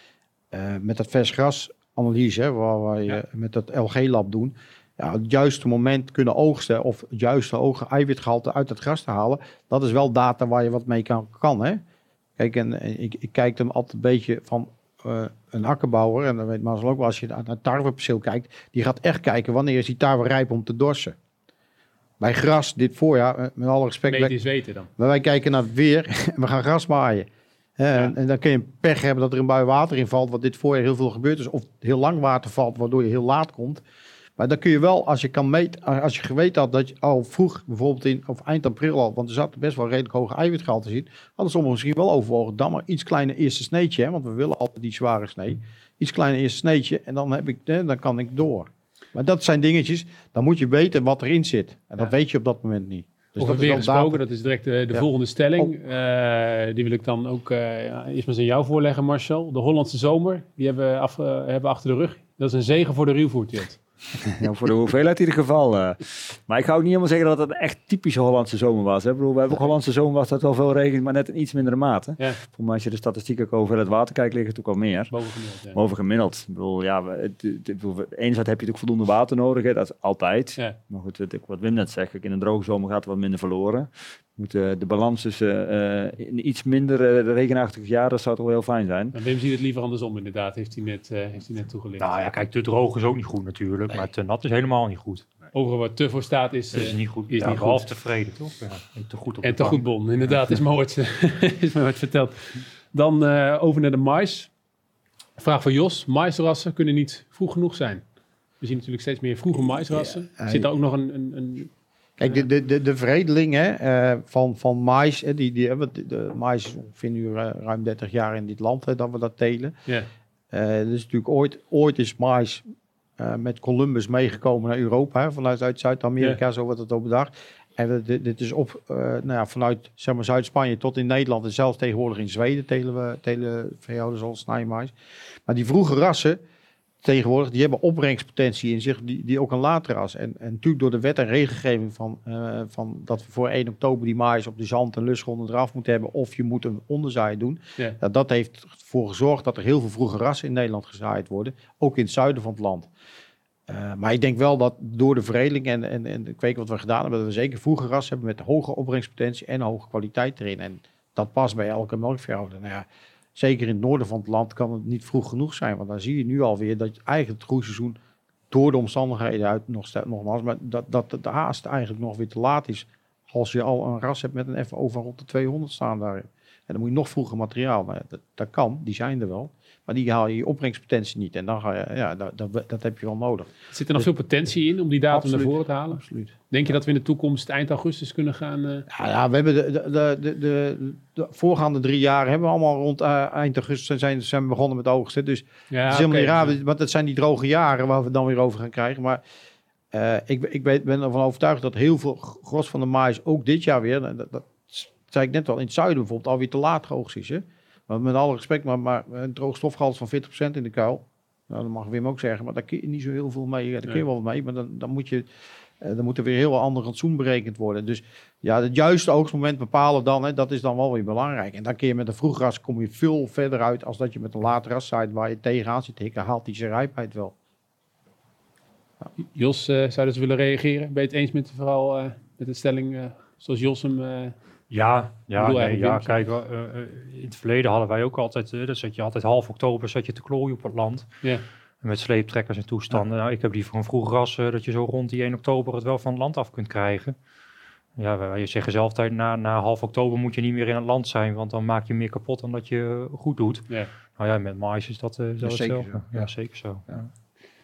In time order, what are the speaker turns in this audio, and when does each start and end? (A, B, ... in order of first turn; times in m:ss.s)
0:00.5-0:11.8 A
0:12.4-0:21.2 A
0:22.2-0:24.3 A
0:24.1-0:24.9 B
0:25.0-0:33.8 A
0:34.4-0:54.2 A
0:53.4-1:03.8 B
1:04.3-1:15.1 C
1:15.1-1:15.8 B
1:15.7-1:29.2 C
1:29.1-1:32.1 B
1:32.0-1:35.2 D
1:35.5-1:37.9 B
1:36.7-1:39.8 D
1:39.4-1:44.5 B
1:45.4-1:48.0 B
1:48.6-1:51.7 B
1:50.4-1:50.7 A
1:52.2-1:59.8 A
2:00.5-2:02.6 A
2:03.2-2:14.9 A
2:15.5-2:16.4 A
2:17.0-2:32.9 A
2:33.7-2:48.0 A
2:48.5-3:04.1 A
3:03.7-3:08.9 B
3:05.1-3:06.3 A
3:08.9-3:19.2 A
3:15.7-3:16.6 B
3:19.9-3:35.3 A
3:35.8-3:47.3 A
3:49.2-3:54.4 B
3:54.7-4:01.1 D
3:55.4-3:56.2 B
4:01.8-4:07.2 D
4:08.0-4:17.1 D
4:15.4-4:16.3 A